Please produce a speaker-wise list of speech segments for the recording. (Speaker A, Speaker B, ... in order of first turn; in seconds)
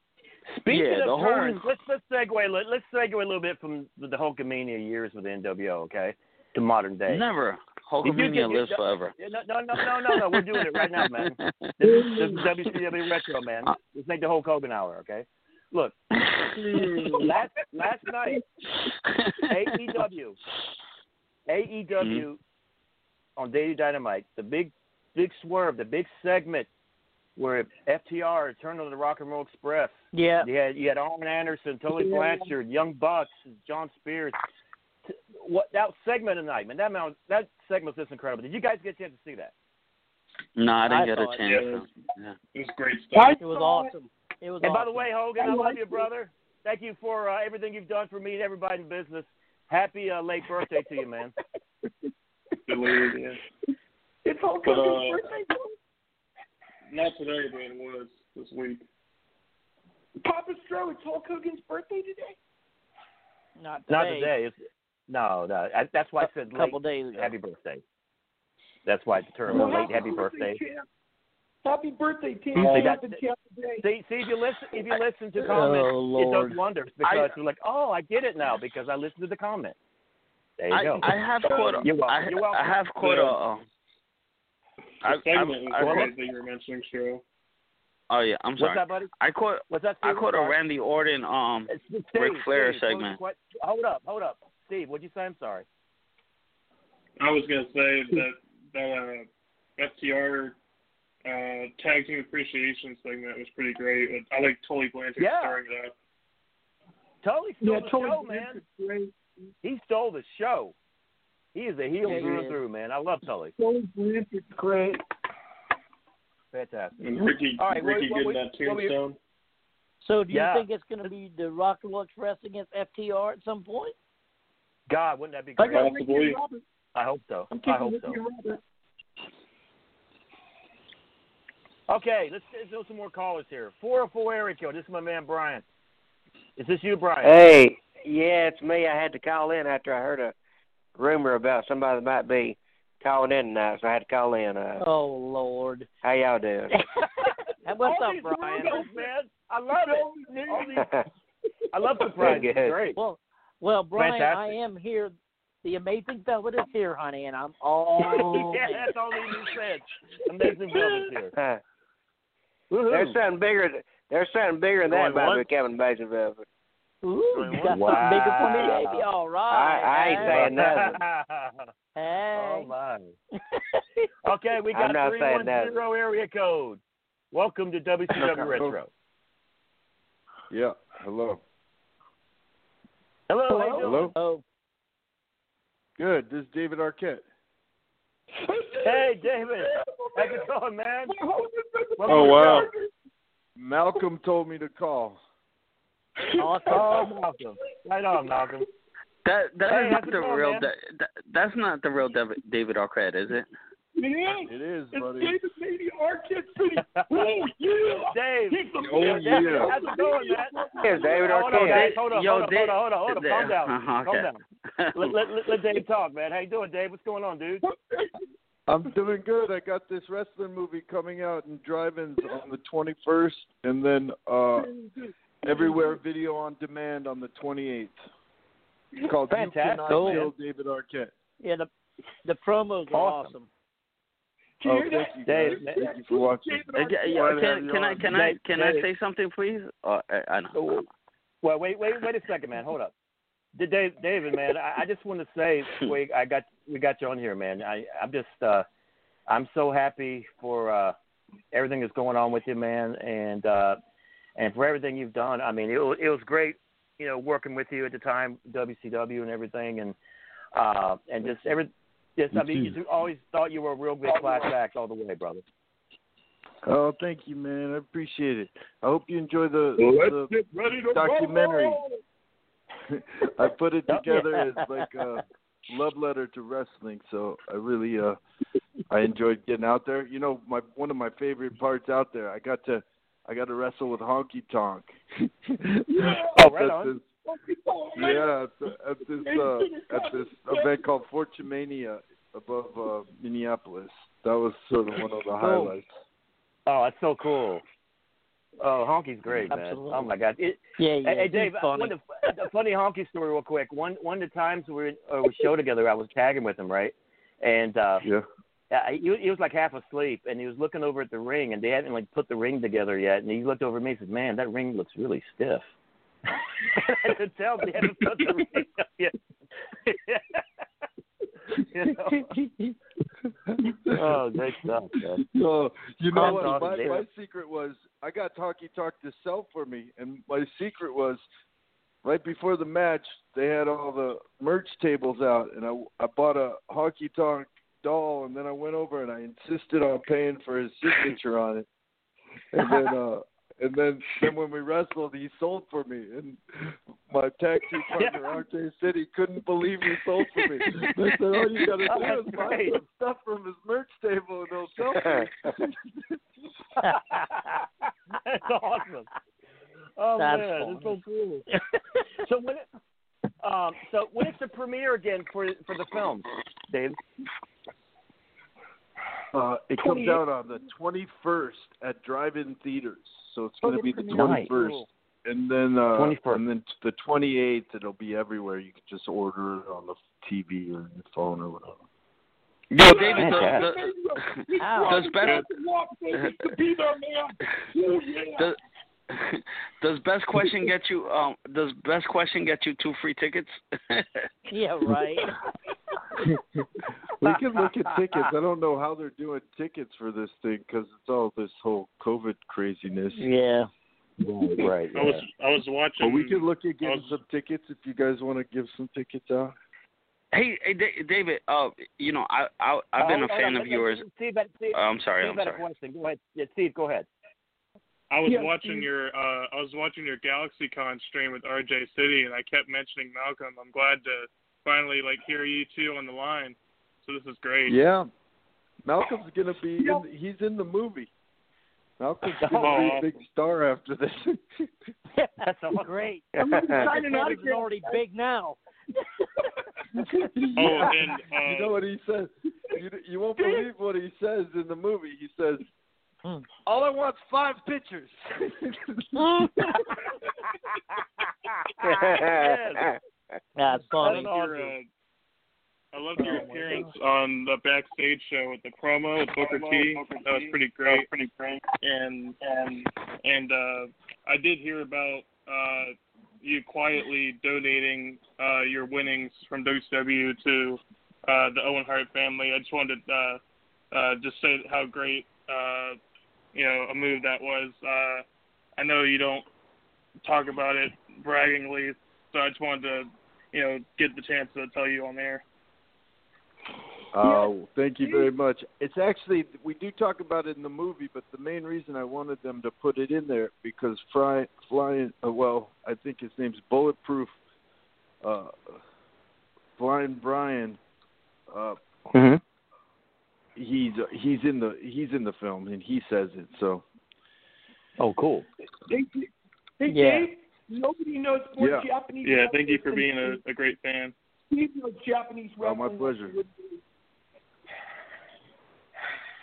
Speaker A: 0.5-7.2, 8.0-16.0, 17.1-18.4, 19.5-20.4, 21.5-22.4, 23.4-26.7, 27.4-34.4, 35.1-39.5, 44.6-51.3, 63.9-67.8, 68.8-70.6, 72.5-73.2, 73.8-79.8, 80.6-81.1, 81.8-83.2, 85.8-86.1, 88.6-89.1, 89.7-90.6, 91.7-95.7, 105.2-105.6, 107.2-108.6, 109.6-110.7, 111.5-113.5, 116.5-118.9, 120.3-120.7, 124.9-125.9, 126.9-128.2, 131.9-135.6, 136.6-137.4, 147.8-150.8, 151.7-153.0, 153.9-154.5, 158.1-161.3, 162.7-163.2, 167.4-169.0, 170.2-171.7, 172.3-173.1, 174.2-176.8, 177.3-178.9, 183.3-184.0, 188.8-191.2, 192.1-192.6, 196.7-198.7, 199.7-200.7, 206.8-207.3, 208.1-214.4, 214.9-217.6, 229.3-230.3, 232.9-233.3, 235.3-235.9, 237.2-238.8, 240.5-240.8, 241.4-242.9, 243.6-248.7, 249.3-250.9, 251.5-253.8, 254.4-259.9, 260.5-265.4, 286.3-286.9, 296.6-297.6, 298.6-308.0, 308.7-315.7, 316.7-319.1, 319.9-320.4, 321.7-322.3, 323.9-325.2, 326.1-327.0, 348.0-348.2, 351.8-352.8, 358.2-359.1, 360.0-361.4, 362.2-362.7, 363.4-367.0, 374.1-374.6, 375.9-376.4, 383.0-383.7, 404.2-405.2, 413.0-417.1, 432.4-432.9, 435.4-436.8, 451.8-452.9, 454.0-454.6, 502.1-502.4, 508.0-508.4
Speaker B: 0.7-1.7, 7.1-9.1, 11.0-11.5, 22.0-22.2, 40.6-42.3, 77.0-77.3, 80.7-83.6, 85.0-86.1, 88.1-93.2, 199.2-203.5, 211.6-214.3, 236.7-240.8, 382.7-383.9, 384.8-385.4, 386.1-386.4, 389.1-394.2, 410.3-414.0, 414.7-415.6
Speaker C: 11.8-12.4, 16.6-17.2, 32.0-32.5, 43.1-43.9, 45.4-46.0, 54.2-55.7, 60.2-62.4, 69.5-70.8, 71.6-73.8, 107.6-109.1, 113.6-115.0, 125.6-126.6, 127.5-128.6, 147.9-148.9, 149.8-150.9, 151.8-152.4, 188.4-189.1, 189.7-190.4, 191.1-192.9, 196.4-197.1, 204.0-211.8, 217.6-218.2, 224.6-226.0, 234.6-237.4, 264.1-264.5, 269.8-272.0, 285.9-286.5, 287.2-290.8, 369.7-370.7, 373.6-374.8, 382.8-388.5, 418.2-418.9, 429.8-430.0, 436.4-438.0, 443.4-443.7, 459.4-460.5, 487.2-488.3, 508.9-513.4, 514.5-516.8
Speaker D: 30.1-30.5, 40.9-41.8, 43.4-45.1, 63.6-64.3, 66.2-67.3, 69.5-69.8, 75.4-76.6, 112.0-112.6, 120.0-123.9, 144.8-145.9, 147.6-148.8, 152.9-158.9, 167.0-170.5, 171.9-172.7, 183.5-184.4, 196.4-197.1, 229.9-230.3, 231.4-231.7, 232.2-233.5, 295.4-295.8, 299.3-300.1, 300.8-301.9, 326.2-326.9, 356.8-357.3, 360.2-361.6, 384.6-385.1, 394.5-395.3, 403.1-403.7, 435.8-438.6, 453.6-454.7, 456.3-456.8, 509.9-510.3
Speaker E: 41.5-41.8, 42.5-43.4, 52.7-53.4, 54.6-55.2, 56.9-58.8, 85.0-87.2, 97.2-100.6, 101.2-105.9, 117.0-119.2, 125.7-126.4, 192.1-192.7, 404.9-407.2, 418.1-427.8, 432.6-433.1, 440.6-441.8, 454.0-454.9, 455.9-473.4, 473.9-476.0, 476.5-478.2, 478.8-479.5, 480.2-485.4, 512.2-514.1
Speaker F: 137.2-140.3, 140.9-144.8, 146.0-146.7, 150.7-151.1, 152.2-152.8, 161.3-161.6, 162.9-166.4, 169.5-171.0, 174.7-175.7, 210.8-211.9, 451.8-453.0
Speaker G: 178.2-178.8, 180.5-181.4, 183.8-184.1, 186.0-187.2, 192.1-192.6, 193.6-195.2, 204.4-205.4, 208.8-209.8, 218.7-224.7, 225.4-228.0, 229.0-231.1, 234.6-236.7, 261.3-261.5, 262.3-262.8, 266.6-271.8, 272.9-278.2, 278.9-284.9, 285.9-287.1, 287.9-295.9, 323.8-324.2, 325.2-331.2, 332.0-341.7, 342.5-346.4, 347.1-355.5, 369.3-381.8, 397.2-403.3, 406.0-409.5, 427.7-428.1, 428.8-431.1, 432.0-434.7, 440.3-445.6, 446.6-448.7, 487.1-497.4, 498.2-498.8, 499.8-500.8, 501.5-501.8, 503.6-506.8, 511.6-511.9, 515.6-516.4